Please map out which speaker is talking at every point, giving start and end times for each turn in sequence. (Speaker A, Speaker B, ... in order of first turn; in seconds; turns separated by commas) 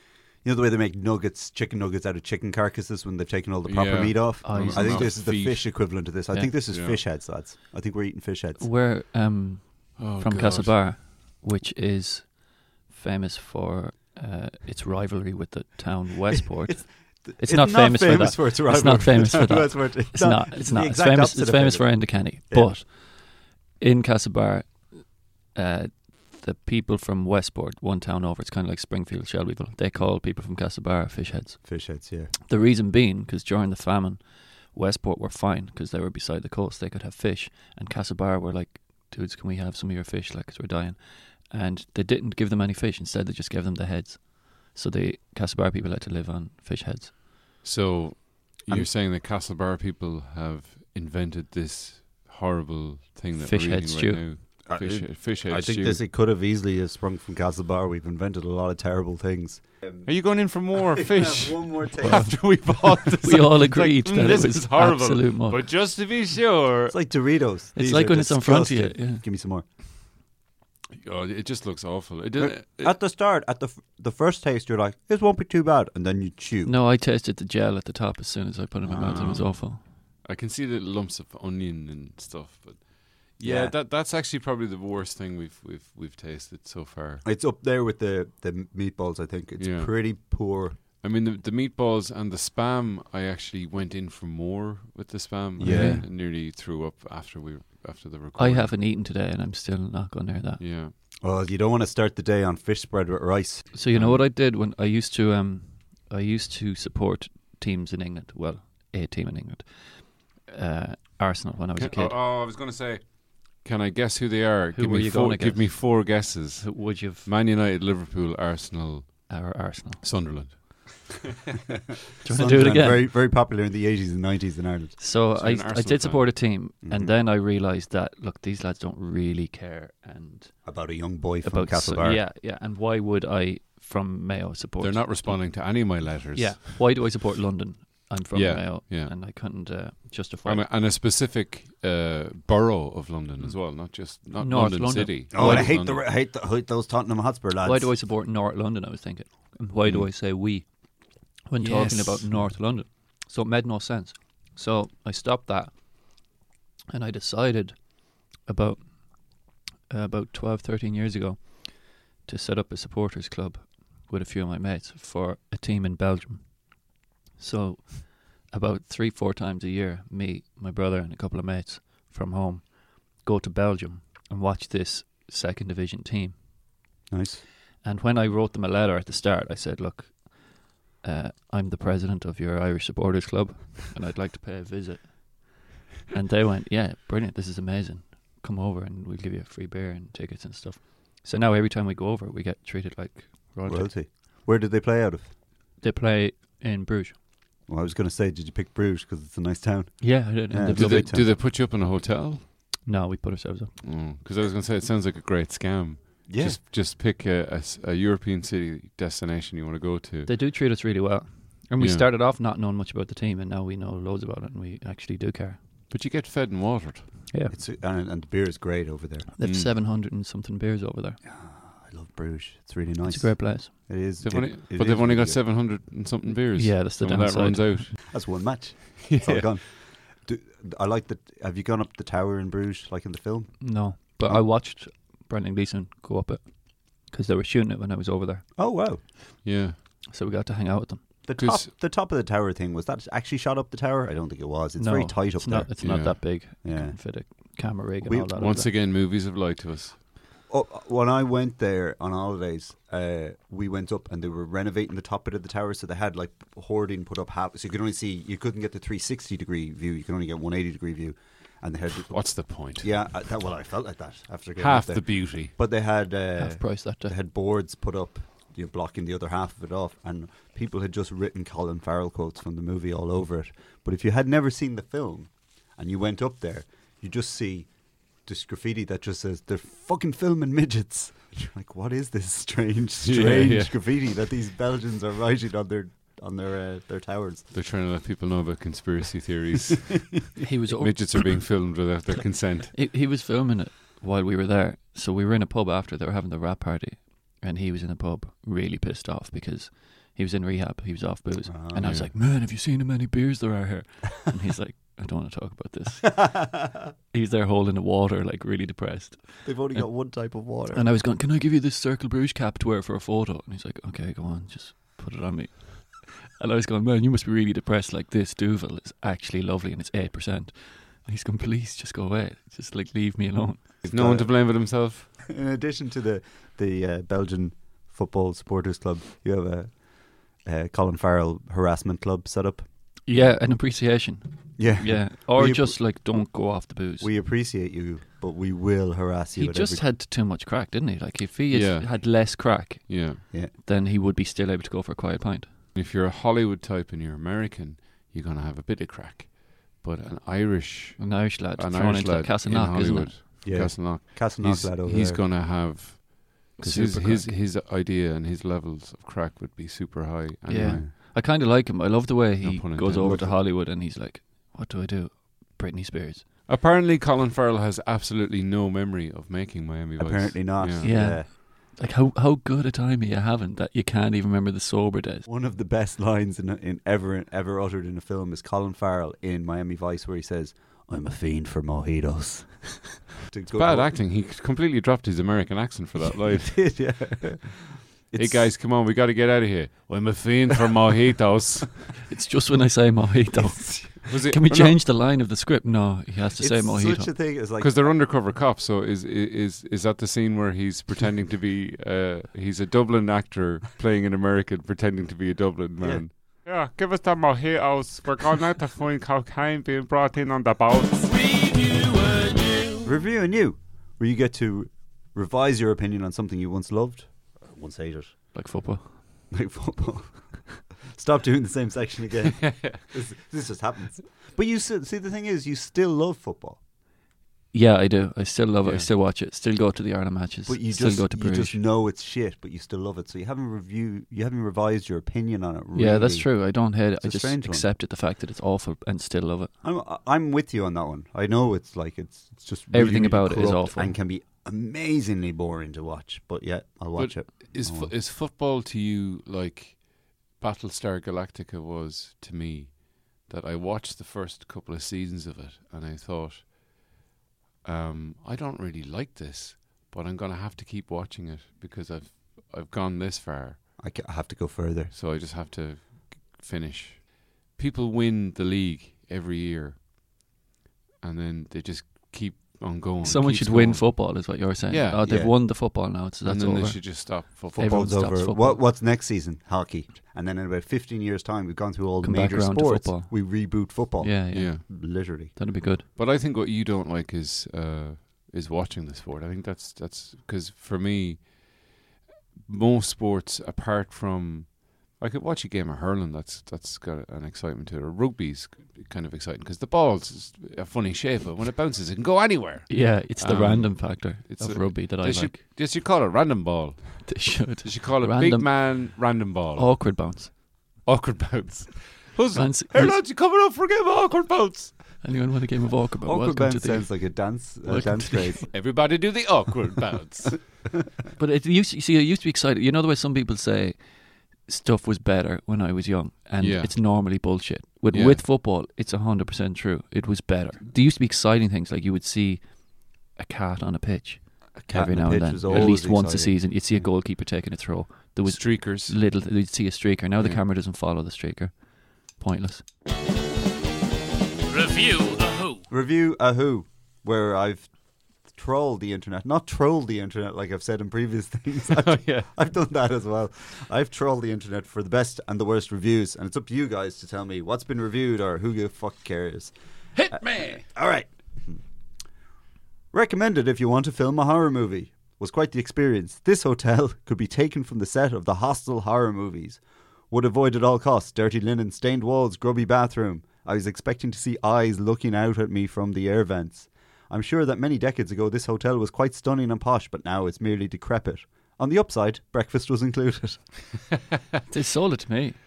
Speaker A: 0.4-8.7, Speaker B: 3.6-6.0, Speaker C: 4.4-5.3, Speaker B: 6.7-7.0, Speaker C: 8.6-47.1, Speaker B: 10.0-10.8, Speaker A: 16.4-22.8, Speaker A: 31.6-32.3, Speaker B: 47.6-56.0, Speaker C: 53.3-54.3, Speaker A: 54.6-60.1, Speaker B: 60.0-67.0, Speaker A: 60.7-62.7, Speaker C: 62.0-65.6, Speaker A: 66.9-69.6, Speaker C: 67.7-69.2, Speaker B: 71.0-73.0, Speaker A: 72.4-76.7, Speaker C: 76.7-79.8, Speaker A: 78.8-79.4, Speaker B: 79.0-87.2, Speaker A: 83.4-83.7, Speaker A: 87.2-90.8, Speaker B: 89.6-90.1, Speaker B: 91.0-98.7, Speaker A: 95.6-96.1, Speaker C: 95.6-96.0, Speaker C: 98.4-100.6, Speaker B: 100.6-100.9, Speaker A: 101.2-104.2, Speaker C: 103.7-112.2, Speaker B: 111.8-119.3, Speaker C: 114.7-117.3, Speaker C: 119.3-120.0, Speaker B: 120.0-121.2, Speaker C: 122.2-123.1, Speaker A: 122.2-125.0, Speaker C: 125.0-130.6, Speaker B: 125.3-126.4, Speaker A: 126.8-127.1, Speaker A: 130.6-132.2, Speaker C: 131.4-140.7, Speaker B: 134.8-136.7, Speaker B: 138.3-139.1, Speaker B: 140.4-146.0, Speaker C: 144.4-145.7, Speaker A: 145.3-147.9, Speaker C: 147.6-156.3, Speaker B: 151.6-152.3, Speaker C: 156.9-176.4, Speaker A: 177.1-177.4, Speaker C: 177.8-194.0, Speaker A: 193.7-195.3, Speaker C: 195.8-197.1, Speaker A: 197.7-201.3, Speaker C: 200.0-201.2, Speaker B: 200.7-202.5, Speaker C: 202.8-203.8, Speaker B: 203.8-210.3, Speaker A: 206.3-206.6, Speaker C: 210.2-215.6, Speaker B: 211.8-212.0, Speaker B: 215.9-217.2, Speaker A: 217.5-219.3, Speaker C: 219.4-221.2, Speaker B: 219.4-219.7, Speaker A: 221.2-225.4, Speaker C: 223.1-223.7, Speaker B: 224.2-228.1, Speaker C: 226.5-227.9, Speaker A: 228.1-234.4, Speaker B: 229.0-229.5, Speaker C: 233.6-238.4, Speaker A: 238.6-239.0, Speaker B: 239.4-239.8, Speaker C: 240.1-241.0, Speaker A: 241.2-247.3, Speaker B: 241.4-241.7, Speaker C: 244.8-248.7, Speaker B: 245.8-246.2, Speaker A: 248.0-248.6, Speaker B: 248.3-250.0, Speaker A: 250.5-277.7, Speaker B: 262.1-262.9, Speaker B: 264.6-265.5, Speaker C: 266.4-267.1, Speaker A: 278.2-287.5, Speaker B: 283.0-283.7, Speaker B: 287.5-292.8, Speaker C: 290.4-291.4, Speaker C: 292.7-323.7, Speaker A: 301.5-301.9, Speaker B: 301.8-302.1, Speaker A: 309.4-310.9, Speaker A: 323.8-332.6, Speaker B: 323.8-325.1, Speaker C: 333.0-337.1, Speaker A: 334.6-335.8, Speaker A: 337.0-339.8, Speaker C: 339.4-345.6, Speaker B: 341.5-343.2, Speaker B: 345.7-360.8, Speaker C: 351.0-353.1, Speaker A: 353.4-355.2, Speaker C: 356.6-357.3, Speaker C: 360.4-366.2, Speaker A: 360.6-360.9, Speaker B: 362.4-363.4, Speaker A: 363.0-363.3, Speaker B: 366.5-370.9, Speaker A: 370.0-371.3, Speaker C: 370.8-375.2, Speaker A: 375.2-384.0, Speaker B: 383.5-386.9, Speaker A: 386.3-388.5, Speaker B: 388.1-391.9, Speaker C: 392.1-397.1, Speaker A: 393.3-393.9, Speaker B: 394.0-394.9, Speaker A: 396.4-397.9, Speaker B: 397.6-411.1, Speaker A: 405.8-406.0, Speaker D: 411.1-412.9, Speaker A: 412.8-418.1, Speaker C: 418.3-419.0, Speaker A: 419.3-426.6, Speaker B: 422.4-422.8, Speaker C: 427.5-431.6, Speaker A: 430.5-437.7, Speaker C: 435.7-439.5, Speaker A: 439.6-447.9, Speaker C: 442.7-443.9, Speaker B: 446.9-456.5, Speaker B: 457.6-463.6, Speaker A: 463.8-464.9, Speaker B: 464.9-469.8, Speaker B: 471.0-475.0, Speaker C: 473.0-478.6, Speaker A: 475.0-475.3, Speaker B: 476.2-478.0, Speaker A: 477.5-485.3, Speaker C: 482.0-485.9, Speaker B: 484.3-484.6, Speaker B: 485.9-491.7, Speaker B: 492.4-509.9, Speaker C: 502.7-505.4, Speaker C: 507.0-510.3, Speaker B: 510.8-515.0, Speaker C: 512.3-513.0, Speaker C: 515.0-518.5, Speaker A: 516.0-518.5, Speaker B: 518.5-520.6, Speaker C: 521.2-542.7, Speaker B: 526.4-526.9, Speaker B: 527.9-528.2, Speaker A: 534.6-536.4, Speaker B: 535.5-535.8, Speaker B: 538.2-539.0, Speaker D: 544.5-545.6, Speaker A: 545.7-559.5, Speaker B: 551.7-552.3, Speaker B: 560.0-560.6, Speaker A: 560.1-561.6, Speaker A: 562.9-583.4, Speaker C: 584.5-585.4